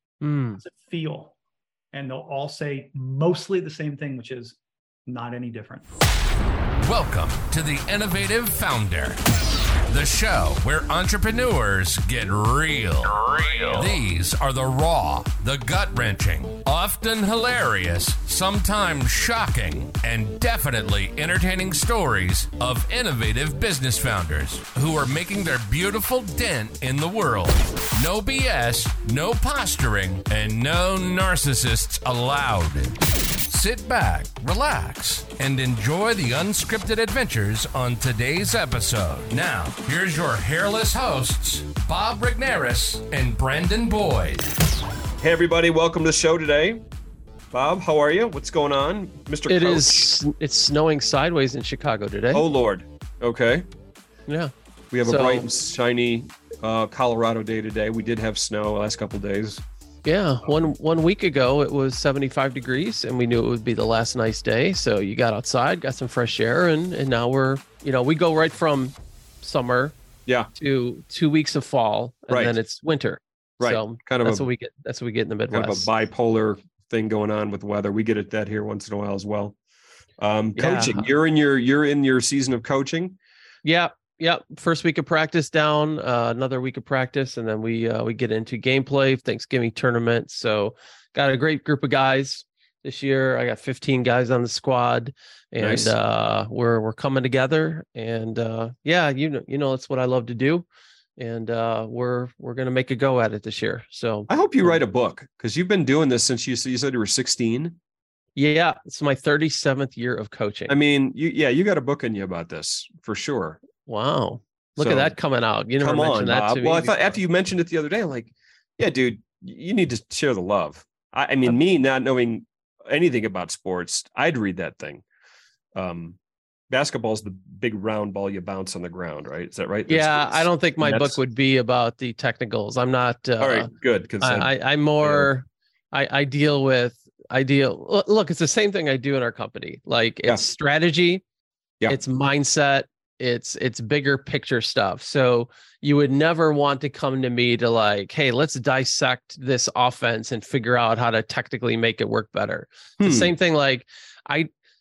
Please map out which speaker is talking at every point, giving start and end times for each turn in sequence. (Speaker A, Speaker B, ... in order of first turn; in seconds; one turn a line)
Speaker A: 0.2-0.6
Speaker B: 0.6-1.3
Speaker B: 1.9-5.9
Speaker C: 6.8-9.2
Speaker C: 9.9-44.5
Speaker D: 45.2-46.8
Speaker D: 47.5-50.1
Speaker A: 49.5-52.4
Speaker D: 52.3-53.7
Speaker A: 54.3-54.5
Speaker D: 54.9-59.6
Speaker A: 55.0-55.5
Speaker A: 60.0-70.0
Speaker A: 70.6-75.9
Speaker D: 72.3-72.5
Speaker D: 73.6-74.5
Speaker D: 75.5-79.6
Speaker D: 80.2-83.2
Speaker A: 80.5-81.0
Speaker A: 83.6-100.7
Speaker D: 95.6-95.9
Speaker A: 101.2-104.3
Speaker D: 104.3-107.8
Speaker A: 108.3-110.7
Speaker D: 110.7-113.6
Speaker A: 113.8-117.1
Speaker D: 114.8-115.1
Speaker D: 115.8-125.0
Speaker D: 125.7-126.2
Speaker D: 126.7-131.2
Speaker A: 129.9-133.7
Speaker D: 133.4-135.3
Speaker A: 134.2-141.2
Speaker A: 141.9-154.5
Speaker D: 153.0-153.3